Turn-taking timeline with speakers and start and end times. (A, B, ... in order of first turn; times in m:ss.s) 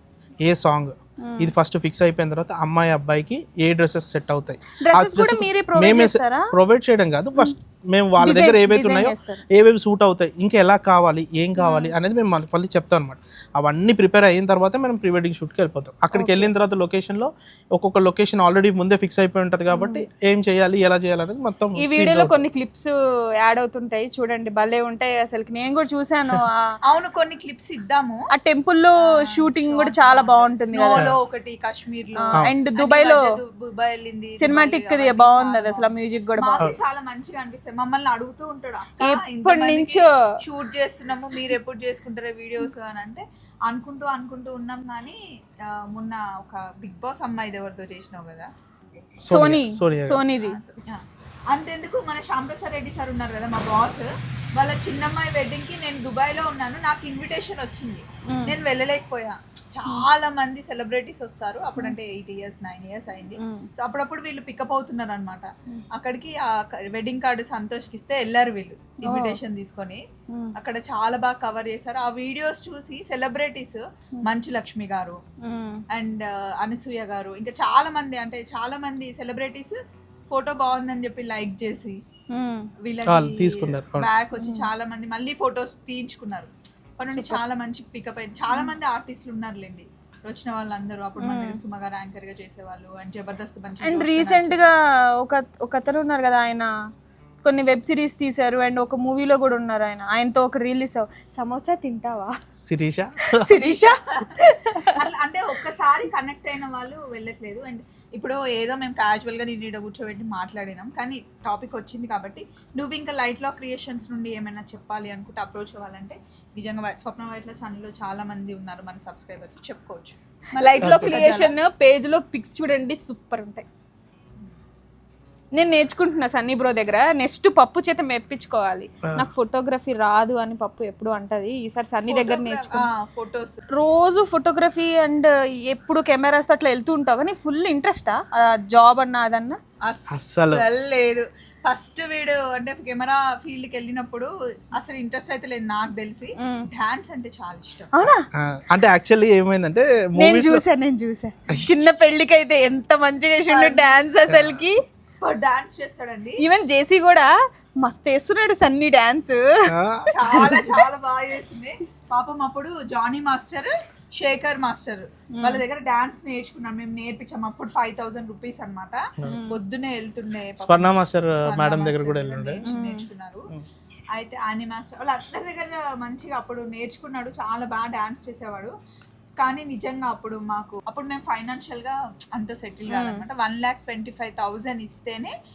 0:00.4-0:22.4 A
0:01.2-0:01.5 B
0:04.8-0:06.5 B
0:08.2-0:09.4 B
0:11.6-0:11.9 B
0:16.1-0:16.5 B
0:19.7-0:20.0 B
0:21.8-0:26.8 B
0:26.9-0:28.3 C
0:28.3-0:31.1 B
0:29.2-0:48.5 C
0:32.3-0:33.2 B
0:34.4-0:36.6 B
0:39.0-0:40.1 B
0:49.2-0:50.2 A
0:49.3-0:50.6 B
0:50.4-1:10.0 C
1:03.4-1:03.7 B
1:09.0-1:09.4 B
1:10.6-1:15.2 C
1:15.4-1:15.8 B
1:15.9-1:19.8 C
1:20.3-1:22.0 C
1:22.3-1:22.7 B
1:22.8-1:34.6 C
1:23.1-1:24.1 A
1:24.4-1:24.7 B
1:27.1-1:27.4 B
1:28.5-1:28.7 B
1:31.2-1:31.6 B
1:33.8-1:36.7 B
1:37.4-1:42.3 B
1:42.6-1:43.5 A
1:43.3-1:45.0 B
1:43.5-2:01.6 C
2:00.6-2:03.7 B
2:00.8-2:01.2 A
2:05.6-2:12.8 B
2:12.1-2:13.6 C
2:13.8-2:19.6 B
2:19.8-2:28.1 C
2:20.1-2:20.6 A
2:27.9-2:28.3 B
2:28.4-2:30.6 A
2:30.2-2:34.8 B
2:33.5-2:33.9 C
2:34.3-2:34.6 A
2:35.2-2:36.4 C
2:36.4-2:37.3 B
2:37.8-2:39.7 B
2:39.7-2:40.6 A
2:40.1-2:53.5 C
2:45.4-2:45.6 B
2:49.2-2:49.6 B
2:50.6-2:52.6 A
2:52.7-2:53.0 B
2:54.2-2:58.7 C
2:59.4-3:05.3 C
3:02.9-3:03.2 B